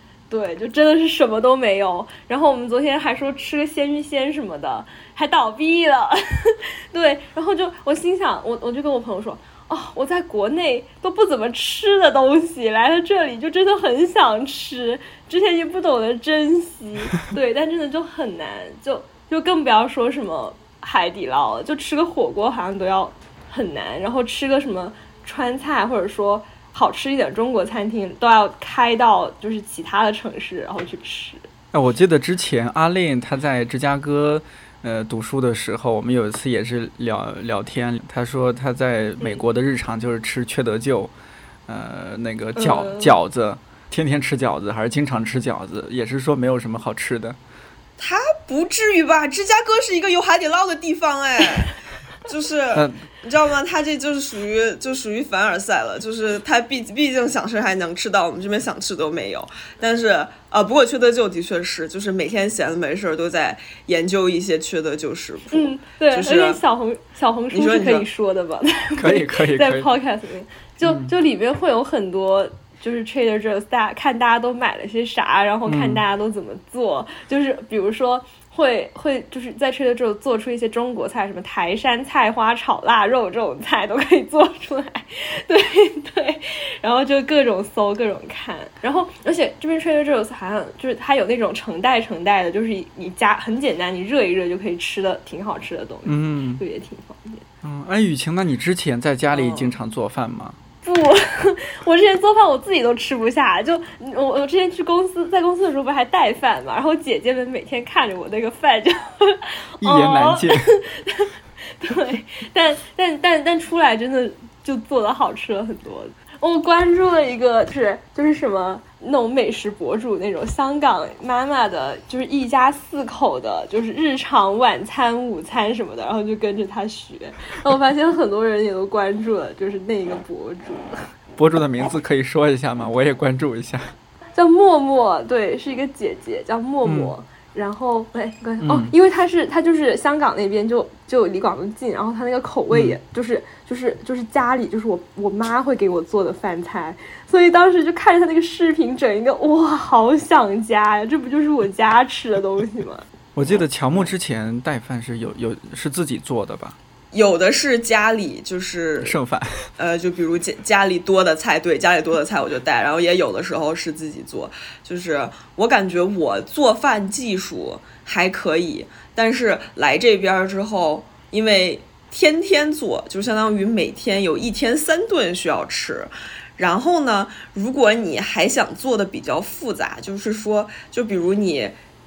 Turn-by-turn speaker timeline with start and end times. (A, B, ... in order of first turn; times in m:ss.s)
0:00.3-0:31.5 A
0:31.7-0:41.1 B
0:41.7-0:47.4 B
0:42.6-0:43.1 A
0:48.0-0:51.8 C
0:52.3-1:06.6 C
0:52.8-0:53.0 B
1:05.5-1:37.4 A
1:07.5-1:08.1 C
1:09.0-1:09.9 B
1:10.8-1:11.1 B
1:15.7-1:16.0 B
1:36.1-1:36.6 B
1:37.6-1:40.6 B
1:39.3-1:39.7 C
1:40.8-2:11.1 A
1:49.8-1:50.7 B
2:11.4-2:13.9 B
2:14.4-2:33.1 A
2:16.8-2:17.2 B
2:18.6-2:18.9 B
2:22.7-2:23.0 B
2:33.4-2:36.8 B
2:37.1-2:39.2 C
2:39.0-2:39.7 B
2:39.8-3:01.8 C